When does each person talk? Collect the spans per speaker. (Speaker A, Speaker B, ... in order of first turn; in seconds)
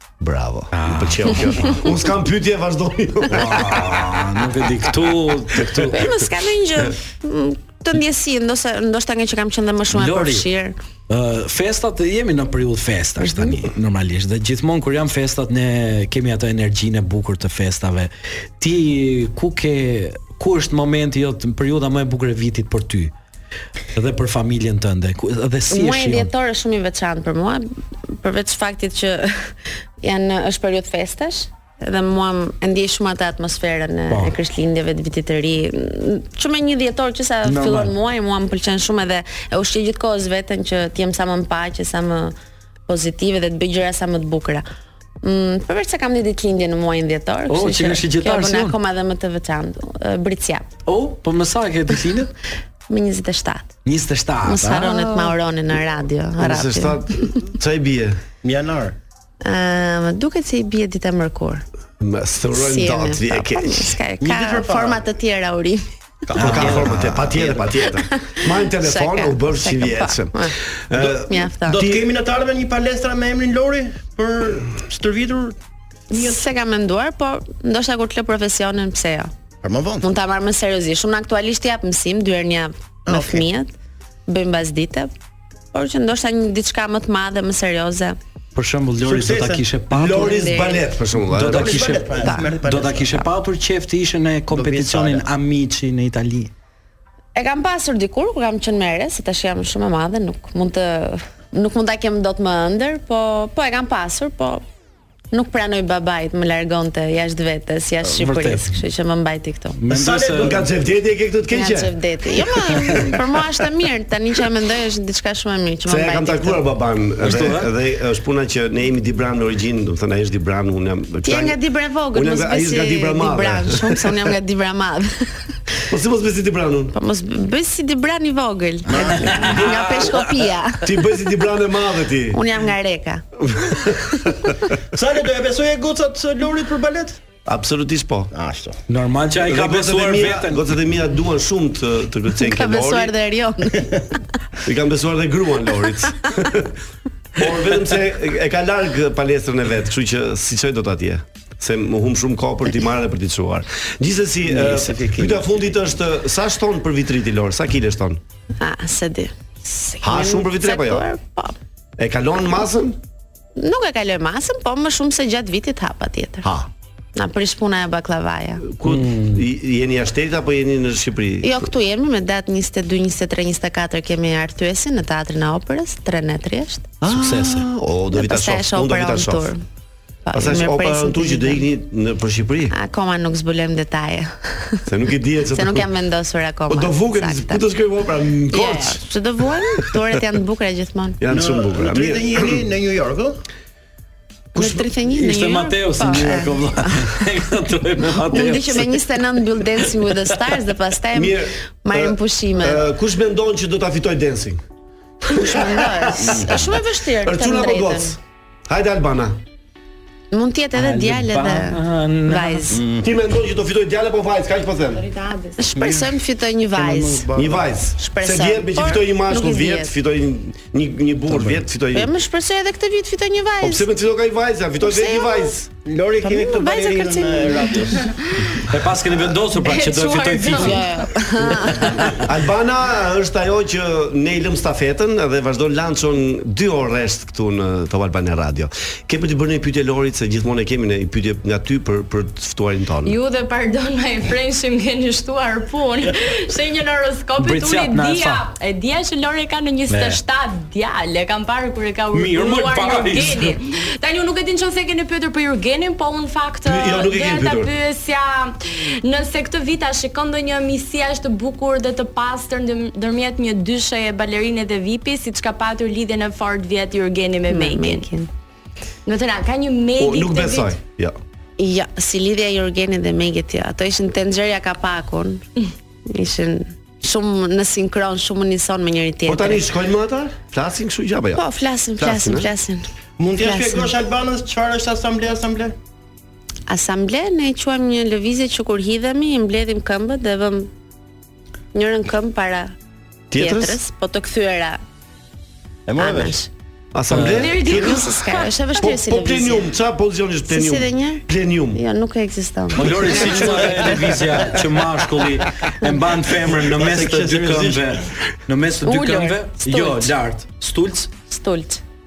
Speaker A: 0.2-4.3, 5.5-6.1, 56.4-58.2, 62.0-64.0, 66.4-72.1, 89.9-91.9, 110.4-112.0, 115.8-121.6, 122.1-124.3, 125.9-127.0, 129.4-129.9, 130.8-132.4, 133.4-134.6, 137.4-138.3, 139.4-143.1, 144.6-146.8, 147.3-158.2, 160.0-161.1, 162.0-163.0, 166.4-166.7, 168.6-171.6, 177.0-179.5, 180.3-182.7, 184.9-185.9, 186.7-189.1, 189.6-190.2, 191.2-192.7, 194.5-194.9, 201.1-204.6, 205.2-209.4, 213.0-215.1, 217.3-222.1, 223.6-225.7, 231.3-243.2, 256.6-257.7, 270.0-271.1, 279.2-282.5, 293.3-293.8, 296.9-298.2, 298.8-301.8
Speaker B: 0.7-1.8, 3.3-6.1, 9.9-10.5, 11.1-23.1, 23.9-26.3, 34.1-34.4, 37.4-37.9, 47.5-48.8, 50.9-52.3, 53.8-55.3, 66.4-66.9, 88.5-90.4, 91.3-96.5, 108.0-108.8, 109.8-110.6, 117.2-117.7, 128.9-130.3, 138.9-140.7, 168.8-169.4, 177.1-177.7, 195.1-199.0, 210.7-212.8, 221.3-221.6, 228.7-230.9, 247.4-248.4, 249.9-250.2, 252.1-253.6, 297.1-297.6, 302.7-311.1
Speaker C: 5.9-10.8, 13.2-13.6, 25.7-29.5, 30.0-42.3, 42.9-44.6, 45.2-50.7, 52.9-53.7, 54.4-57.4, 59.4-61.6, 62.5-65.8, 68.0-70.5, 71.3-71.8, 76.1-79.3, 80.0-83.7, 84.3-85.1, 85.7-88.2, 90.0-90.9, 92.2-92.5, 97.3-104.6, 105.3-109.8, 111.5-116.7, 121.2-125.5, 126.9-131.0, 132.3-134.4, 142.3-144.2, 158.6-161.6, 163.6-166.5, 167.1-168.7, 171.4-177.0, 178.1-179.6, 180.3-181.7, 182.7-184.8, 185.5-187.6, 188.5-191.2, 194.6-197.2, 198.2-202.9, 205.3-208.2, 210.3-212.8, 215.6-217.3, 218.0-219.9, 221.9-223.9, 224.8-225.6, 226.2-228.5, 230.5-232.2, 267.5-268.3, 271.6-275.4, 276.1-279.7, 281.4-282.8, 283.4-283.9, 286.7-290.7, 291.7-292.7, 293.4-294.8, 296.0-296.5, 297.7-299.7, 300.5-304.1, 308.8-310.1, 311.2-311.8
Speaker D: 58.4-59.0, 64.2-65.0, 66.3-67.8, 71.0-75.6, 76.1-76.4, 79.6-80.1, 83.1-83.5, 89.0-89.6, 91.5-93.2, 94.5-95.2, 109.9-110.7, 128.9-129.7, 134.9-137.2, 138.3-138.8, 154.4-155.5, 191.3-193.4, 206.2-206.6, 212.7-213.1, 215.7-216.2, 216.7-217.7, 225.8-228.1, 283.2-285.7, 295.9-296.4, 306.4-307.9
Speaker E: 215.2-215.5, 229.6-230.9, 243.0-268.1, 269.1-270.8, 297.3-298.6